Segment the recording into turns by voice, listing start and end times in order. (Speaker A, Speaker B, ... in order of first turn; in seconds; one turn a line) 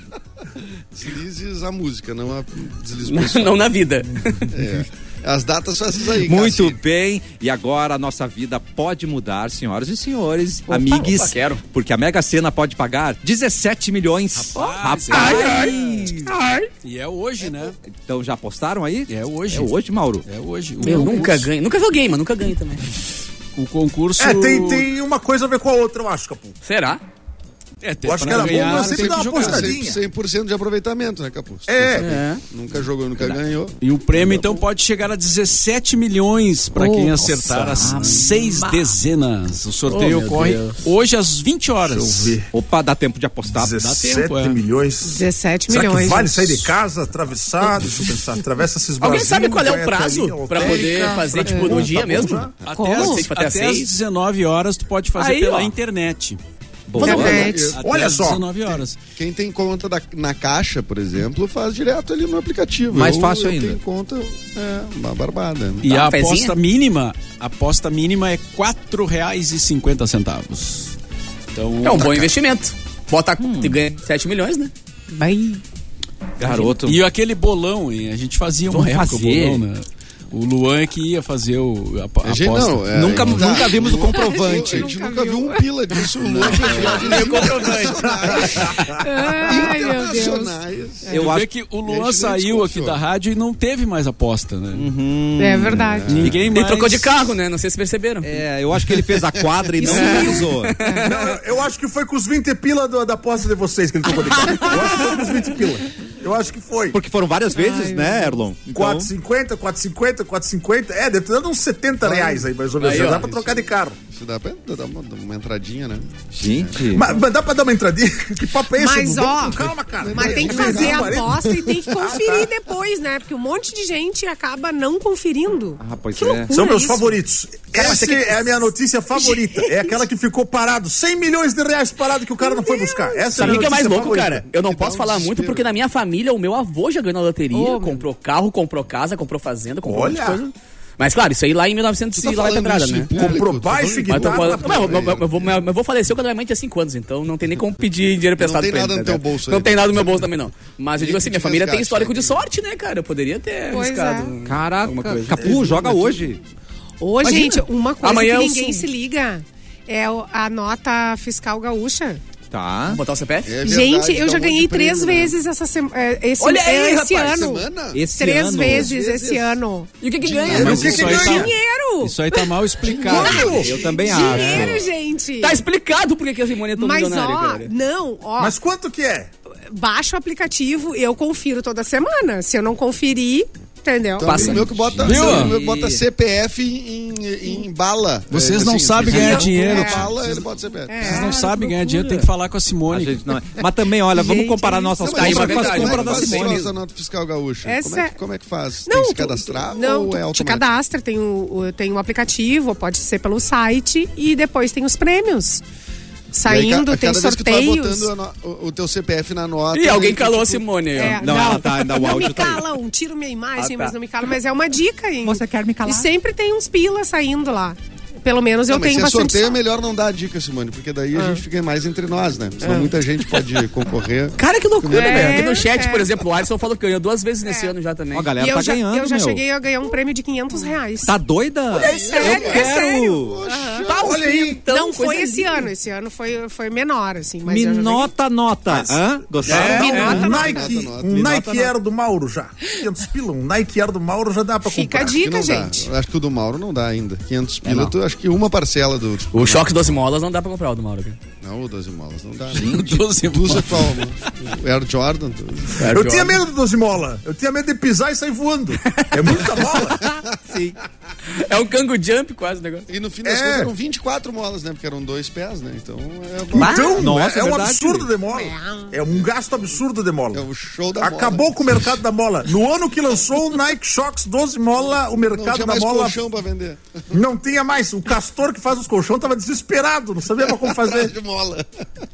Speaker A: 0.9-3.7
Speaker B: 3.0-4.5
Speaker A: 4.5-6.8
Speaker C: 6.2-16.3
Speaker B: 10.7-11.6
Speaker D: 14.3-16.1
Speaker B: 15.1-16.7
Speaker D: 16.8-17.8
Speaker C: 17.9-20.2
Speaker D: 19.1-19.7
Speaker D: 20.2-21.5
Speaker B: 20.8-22.8
Speaker D: 23.6-24.9
Speaker E: 24.2-26.6
Speaker B: 26.6-27.0
Speaker D: 27.8-29.7
Speaker E: 28.0-30.0
Speaker A: 28.3-34.5
Speaker E: 31.7-32.1
Speaker B: 32.0-32.4
Speaker D: 33.8-42.4
Speaker F: 36.8-37.2
Speaker C: 37.3-38.7
Speaker B: 39.9-40.8
Speaker E: 41.8-42.5
Speaker C: 42.5-43.8
Speaker E: 43.5-52.6
Speaker D: 43.7-44.6
Speaker F: 45.0-46.7
Speaker B: 49.0-53.9
Speaker F: 50.6-51.9
Speaker D: 52.6-56.4
Speaker F: 52.7-53.2
Speaker B: 55.2-55.7
Speaker C: 56.9-57.6
Speaker F: 57.0-57.8
Speaker A: 57.0-57.8
Speaker D: 57.0-59.0
Speaker E: 57.8-58.5
Speaker A: 59.2-65.9
Speaker C: 62.9-63.8
Speaker D: 65.8-71.0
Speaker B: 65.9-66.5
Speaker D: 71.5-72.3
Speaker B: 71.8-74.7
Speaker C: 73.4-73.8
Speaker F: 75.1-75.6
Speaker C: 76.4-77.0
Speaker B: 76.4-76.7
Speaker D: 76.8-83.5
Speaker C: 78.7-79.6
Speaker A: 82.2-91.2
Speaker C: 82.9-85.0
Speaker F: 84.0-86.1
Speaker D: 86.2-87.6
Speaker B: 86.6-88.7
Speaker E: 88.7-89.0
Speaker F: 89.0-90.5
Speaker C: 91.1-91.5
Speaker D: 91.2-94.9
Speaker A: 91.8-93.0
Speaker C: 94.7-96.4
Speaker F: 95.4-96.3
Speaker A: 95.7-96.4
Speaker D: 96.1-97.2
Speaker B: 96.5-98.4
Speaker C: 98.2-100.8
Speaker F: 99.8-101.1
Speaker B: 99.8-101.4
Speaker E: 101.0-107.0
Speaker C: 106.9-109.1
Speaker F: 107.6-108.4
Speaker E: 108.7-114.0
Speaker A: 112.0-117.0
Speaker B: 112.8-113.3
Speaker C: 116.3-117.1
Speaker E: 116.9-122.5
Speaker F: 118.8-127.1
Speaker A: 120.0-121.8
Speaker C: 125.8-126.5
Speaker E: 126.5-134.4
Speaker B: 127.7-128.5
Speaker F: 129.1-130.0
Speaker F: 132.4-133.7
Speaker B: 133.3-143.3
Speaker A: 134.5-135.7
Speaker F: 137.5-138.1
Speaker E: 139.8-140.4
Speaker A: 142.1-145.6
Speaker E: 143.2-145.1
Speaker B: 144.1-155.6
Speaker A: 148.4-150.3
Speaker A: 151.0-152.4
Speaker F: 153.7-154.3
Speaker C: 154.4-156.4
Speaker F: 157.0-162.2
Speaker B: 157.2-158.9
Speaker C: 162.5-163.0
Speaker B: 162.9-163.6
Speaker A: 163.4-165.4
Speaker F: 163.6-169.9
Speaker B: 166.4-167.5
Speaker A: 167.2-168.0
Speaker C: 167.9-168.9
Speaker A: 168.7-169.6
Speaker B: 170.0-171.2
Speaker A: 170.2-171.2
Speaker E: 170.4-171.5
Speaker D: 170.5-173.7
Speaker F: 170.9-172.5
Speaker C: 173.0-174.9
Speaker E: 173.1-173.8
Speaker F: 173.1-175.6
Speaker B: 175.4-177.7
Speaker F: 176.8-178.6
Speaker E: 178.4-179.3
Speaker F: 179.7-184.6
Speaker A: 184.2-191.3
Speaker B: 184.2-184.8
Speaker C: 184.4-186.0
Speaker D: 185.0-185.6
Speaker D: 188.3-190.3
Speaker F: 189.1-190.2
Speaker F: 190.9-192.2
Speaker D: 191.0-193.2
Speaker C: 192.9-196.7
Speaker F: 194.1-195.2
Speaker A: 195.0-200.7
Speaker B: 195.1-196.7
Speaker F: 197.7-198.1
Speaker F: 198.9-205.6
Speaker F: 206.3-208.1
Speaker A: 206.4-210.7
Speaker B: 209.7-211.3
Speaker F: 210.9-219.6
Speaker C: 211.1-212.7
Speaker B: 213.6-213.9
Speaker C: 215.2-216.1
Speaker A: 218.7-225.6
Speaker F: 221.2-221.4
Speaker F: 222.6-222.9
Speaker B: 224.4-228.3
Speaker F: 224.9-226.1
Speaker F: 227.4-227.7
Speaker C: 228.1-229.4
Speaker F: 228.4-231.2
Speaker C: 231.0-233.4
Speaker F: 231.7-234.0
Speaker A: 231.7-234.2
Speaker B: 233.9-235.7
Speaker E: 234.0-234.6
Speaker F: 234.7-238.1
Speaker C: 237.4-240.3
Speaker E: 238.8-245.2
Speaker B: 239.5-240.2
Speaker F: 239.5-240.8
Speaker A: 240.0-241.6
Speaker C: 241.3-241.6
Speaker F: 244.7-245.9
Speaker A: 245.1-250.0
Speaker B: 249.3-251.2
Speaker A: 251.4-255.9
Speaker D: 252.5-254.1
Speaker C: 252.6-253.0
Speaker B: 255.8-256.4
Speaker E: 255.8-260.1
Speaker B: 258.9-259.4
Speaker C: 260.4-260.8
Speaker B: 261.3-262.9
Speaker A: 262.9-267.0
Speaker E: 263.2-263.7
Speaker B: 266.6-267.0
Speaker E: 266.6-270.4
Speaker C: 267.0-268.1
Speaker F: 268.3-269.0
Speaker A: 270.3-272.0
Speaker E: 271.0-276.2
Speaker A: 275.1-277.1
Speaker E: 277.1-281.1
Speaker A: 280.4-281.8